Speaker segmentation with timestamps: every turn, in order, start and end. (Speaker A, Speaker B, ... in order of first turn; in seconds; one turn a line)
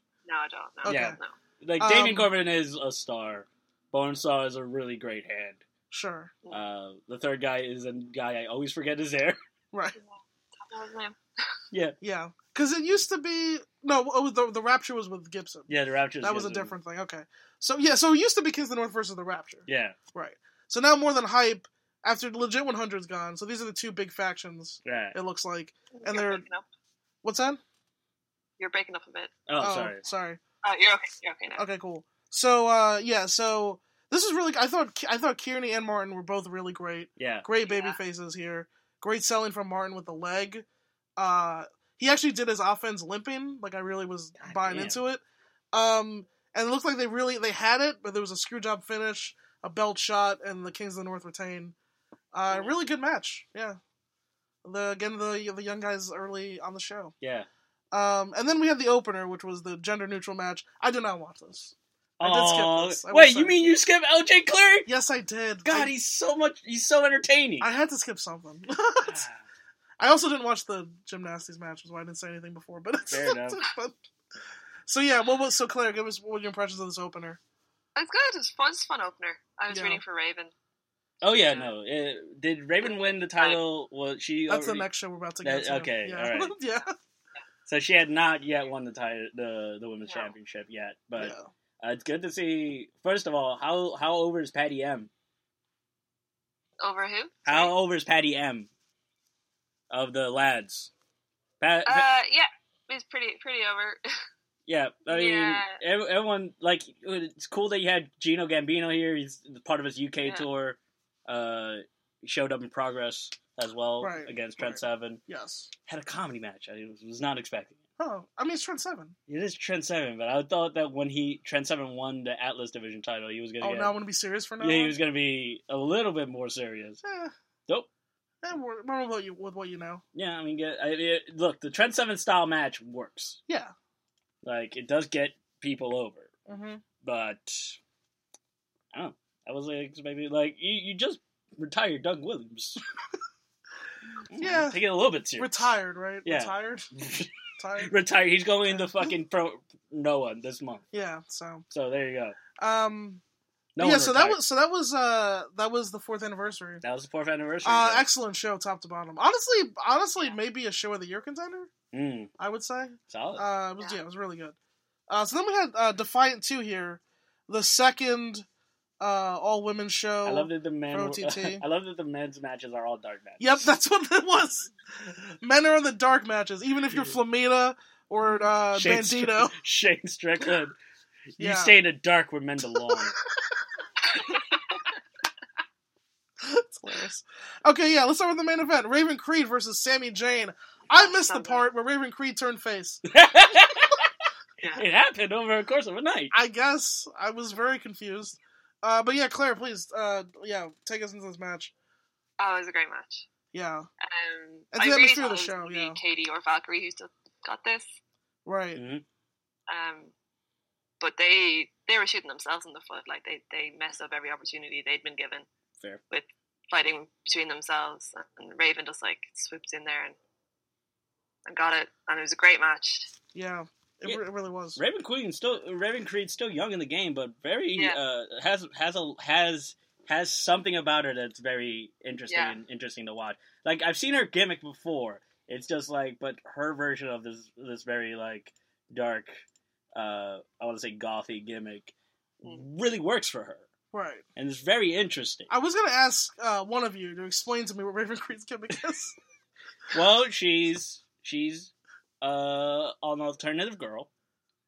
Speaker A: 0.2-1.3
Speaker B: 0.8-1.2
Speaker C: 0.9-5.6
Speaker B: 1.8-2.3
Speaker B: 5.9-6.3
Speaker C: 6.5-9.4
Speaker A: 9.9-11.2
Speaker C: 11.7-11.9
Speaker B: 12.0-15.7
Speaker C: 15.7-16.7
Speaker B: 16.2-26.4
Speaker C: 19.7-19.9
Speaker C: 24.8-25.1
Speaker A: 25.9-26.6
Speaker B: 27.2-27.6
Speaker A: 28.6-29.3
Speaker C: 29.5-30.0
Speaker B: 29.6-30.4
Speaker A: 30.6-31.6
Speaker B: 31.6-40.6
Speaker C: 37.2-37.5
Speaker A: 37.6-38.0
Speaker B: 41.2-51.7
Speaker C: 44.4-45.0
Speaker B: 52.3-53.8
Speaker A: 52.5-52.7
Speaker B: 54.6-57.1
Speaker C: 57.2-57.5
Speaker B: 57.9-63.6
Speaker C: 62.2-64.9
Speaker B: 64.8-65.9
Speaker C: 65.6-67.7
Speaker B: 67.6-69.2
Speaker C: 69.0-69.4
Speaker B: 70.0-74.0
Speaker C: 73.1-73.6
Speaker B: 74.9-77.4
Speaker A: 78.0-80.5
Speaker B: 79.7-80.0
Speaker C: 81.2-84.9
Speaker A: 81.2-81.7
Speaker A: 82.8-83.6
Speaker B: 84.5-86.9
Speaker C: 85.4-86.5
Speaker C: 87.7-95.1
Speaker A: 90.0-90.3
Speaker B: 91.2-91.5
Speaker A: 96.8-97.7
Speaker C: 97.5-98.7
Speaker C: 99.9-100.9
Speaker C: 101.6-102.1
Speaker A: 101.8-104.0
Speaker C: 104.7-115.2
Speaker A: 105.1-105.8
Speaker B: 114.0-115.7
Speaker C: 115.9-117.8
Speaker B: 118.0-119.2
Speaker C: 119.3-123.9
Speaker B: 123.6-125.0
Speaker C: 124.6-127.0
Speaker B: 127.0-127.3
Speaker B: 128.4-130.0
Speaker C: 130.1-133.4
Speaker C: 134.4-136.3
Speaker B: 136.5-136.8
Speaker C: 137.0-137.8
Speaker C: 138.9-142.8
Speaker C: 144.3-145.7
Speaker B: 144.4-144.8
Speaker B: 145.4-146.9
Speaker C: 146.2-147.3
Speaker B: 147.6-147.9
Speaker C: 147.8-150.8
Speaker B: 148.7-149.1
Speaker B: 150.9-151.7
Speaker C: 151.7-152.4
Speaker B: 152.6-153.2
Speaker C: 153.7-154.4
Speaker B: 153.8-156.8
Speaker C: 156.8-158.1
Speaker B: 157.6-161.7
Speaker C: 161.9-162.3
Speaker B: 162.4-164.6
Speaker C: 163.1-163.4
Speaker B: 165.1-168.4
Speaker B: 169.0-171.6
Speaker C: 170.2-173.7
Speaker B: 173.4-179.5
Speaker C: 178.7-180.7
Speaker C: 181.3-183.1
Speaker B: 181.4-181.8
Speaker A: 184.1-184.8
Speaker B: 186.4-193.0
Speaker A: 190.9-191.7
Speaker C: 193.1-194.1
Speaker C: 194.7-196.3
Speaker B: 196.3-201.7
Speaker A: 202.4-203.2
Speaker B: 203.5-203.9
Speaker A: 204.0-207.9
Speaker B: 204.7-206.0
Speaker B: 208.4-208.8
Speaker C: 208.8-209.0
Speaker A: 209.7-210.1
Speaker A: 211.0-215.5
Speaker A: 216.1-220.2
Speaker A: 221.4-223.1
Speaker B: 223.3-224.8
Speaker C: 224.8-239.3
Speaker A: 232.3-232.6
Speaker C: 239.9-243.7
Speaker B: 243.9-244.2
Speaker C: 244.3-245.5
Speaker B: 245.5-249.2
Speaker C: 249.9-254.1